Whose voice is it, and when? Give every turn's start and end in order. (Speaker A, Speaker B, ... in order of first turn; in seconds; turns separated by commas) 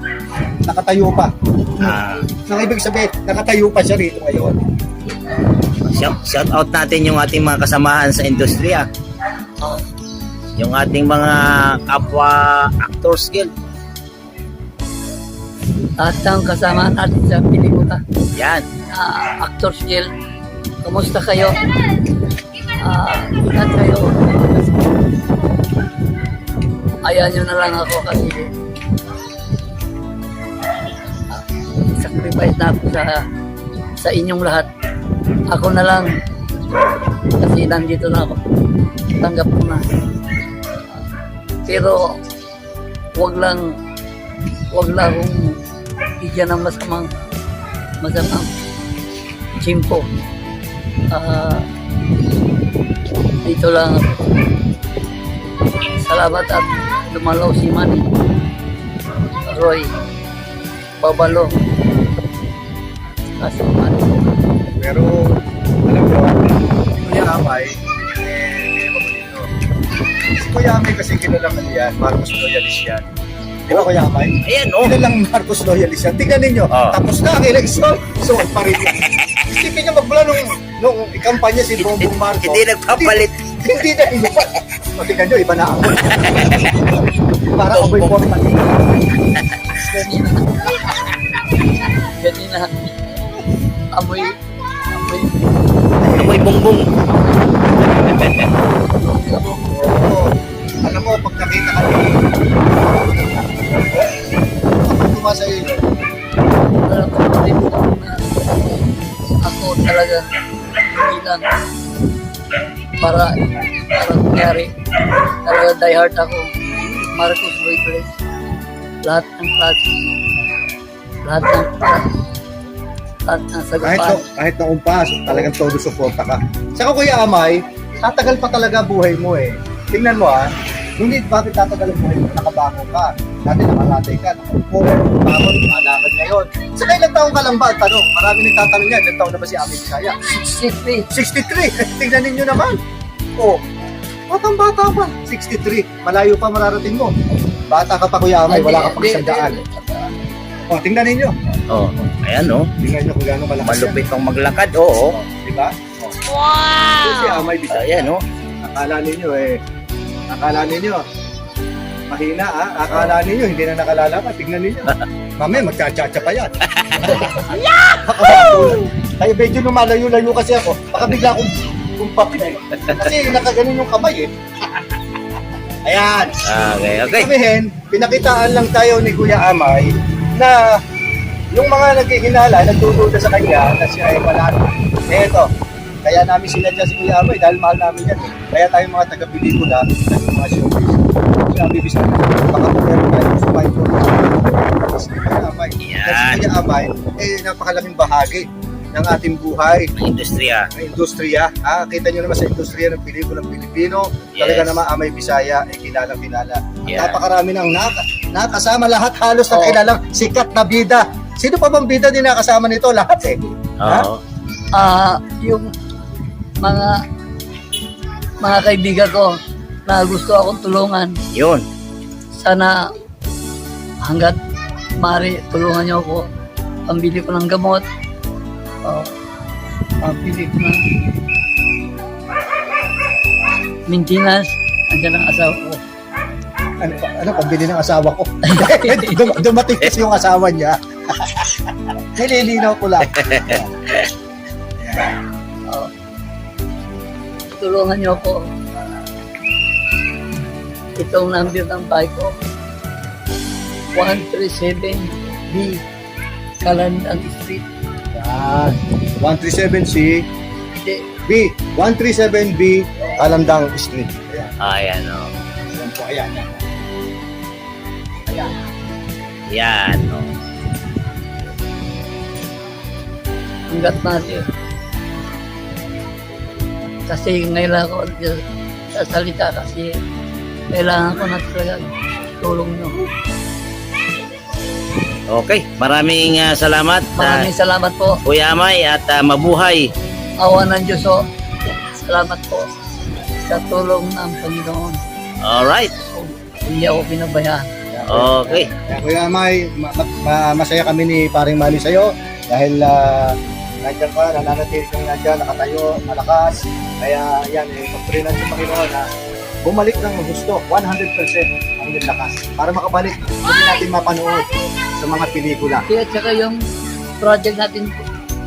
Speaker A: 0.7-4.6, Speaker B: 1.8-2.3, Speaker B: 5.9-8.9, Speaker B: 10.6-13.5, Speaker C: 16.0-18.0, Speaker B: 18.4-18.6, Speaker C: 18.9-20.1, Speaker C: 20.8-21.6, Speaker C: 22.8-24.9, Speaker C: 27.0-28.5, Speaker C: 31.9-33.2, Speaker C: 34.0-34.7, Speaker C: 35.5-36.1, Speaker C: 37.4-38.4, Speaker C: 39.2-39.8, Speaker C: 41.7-42.2, Speaker C: 43.1-43.6, Speaker C: 44.7-45.6, Speaker C: 46.2-47.1, Speaker C: 48.0-48.5, Speaker C: 49.6-50.1, Speaker C: 51.1-51.7, Speaker C: 53.4-54.3, Speaker C: 56.0-58.1, Speaker C: 59.5-59.9, Speaker C: 61.0-61.5, Speaker C: 63.4-64.3, Speaker A: 64.8-69.5, Speaker A: 70.3-73.0, Speaker A: 73.7-88.8, Speaker B: 74.4-75.0, Speaker B: 76.7-77.0, Speaker B: 81.8-83.7, Speaker B: 86.1-86.9, Speaker B: 87.7-88.4, Speaker C: 89.8-91.0, Speaker C: 92.0-92.9, Speaker C: 93.9-94.4, Speaker C: 94.9-95.5, Speaker A: 96.0-96.4, Speaker B: 96.2-96.9, Speaker B: 97.9-98.5, Speaker C: 99.0-99.6, Speaker A: 99.6-102.2, Speaker A: 102.9-104.1, Speaker A: 104.7-105.8, Speaker C: 106.8-108.7, Speaker C: 109.5-110.3, Speaker C: 110.9-111.4, Speaker C: 113.0-113.4, Speaker C: 113.9-114.7, Speaker C: 115.5-116.5, Speaker C: 117.1-118.1, Speaker C: 119.0-119.9, Speaker C: 121.2-122.1, Speaker C: 123.3-124.2, Speaker A: 123.8-140.2, Speaker C: 140.2-141.1, Speaker A: 141.1-142.8, Speaker A: 144.3-147.2, Speaker A: 147.7-149.6, Speaker C: 148.5-150.2, Speaker A: 150.7-151.4, Speaker B: 151.7-152.7, Speaker A: 152.8-154.1, Speaker B: 153.6-155.2, Speaker A: 155.0-156.2, Speaker B: 156.3-158.2, Speaker A: 157.0-159.6, Speaker A: 160.3-161.1, Speaker A: 162.1-167.3, Speaker B: 166.7-168.7, Speaker A: 168.0-174.3, Speaker A: 175.9-176.4, Speaker B: 176.5-177.3, Speaker A: 177.1-180.6, Speaker A: 181.5-185.5, Speaker A: 186.1-199.9, Speaker B: 195.8-196.4, Speaker B: 200.0-200.7, Speaker A: 200.7-214.1, Speaker B: 204.3-204.8, Speaker B: 206.9-207.2, Speaker C: 209.5-209.8, Speaker B: 213.8-214.2, Speaker C: 214.8-215.7, Speaker C: 216.6-216.9, Speaker C: 218.4-221.1, Speaker B: 221.3-221.7, Speaker C: 222.4-222.8, Speaker C: 224.0-224.4, Speaker C: 225.0-226.3, Speaker C: 226.9-227.8, Speaker C: 228.8-229.1, Speaker C: 230.0-230.8, Speaker C: 233.9-235.8, Speaker A: 236.8-241.6, Speaker C: 238.5-239.2, Speaker A: 242.2-243.8, Speaker B: 243.1-244.1, Speaker C: 247.6-248.5, Speaker C: 251.0-252.3, Speaker C: 253.9-255.2, Speaker A: 255.5-255.8, Speaker C: 256.6-257.6, Speaker A: 258.1-260.2, Speaker A: 261.3-264.6, Speaker B: 264.6-265.3, Speaker A: 265.7-266.6, Speaker B: 269.5-270.3, Speaker C: 273.7-274.4, Speaker C: 277.1-278.4, Speaker C: 278.9-280.0, Speaker C: 280.7-283.1, Speaker B: 285.3-287.5, Speaker C: 287.2-288.2, Speaker B: 288.2-289.9, Speaker C: 290.4-291.2, Speaker C: 292.0-292.7, Speaker C: 293.4-295.0, Speaker B: 295.4-295.9, Speaker C: 296.1-297.7, Speaker A: 297.9-309.0, Speaker B: 298.1-298.7, Speaker A: 309.6-315.9, Speaker C: 315.9-316.6, Speaker C: 317.2-318.1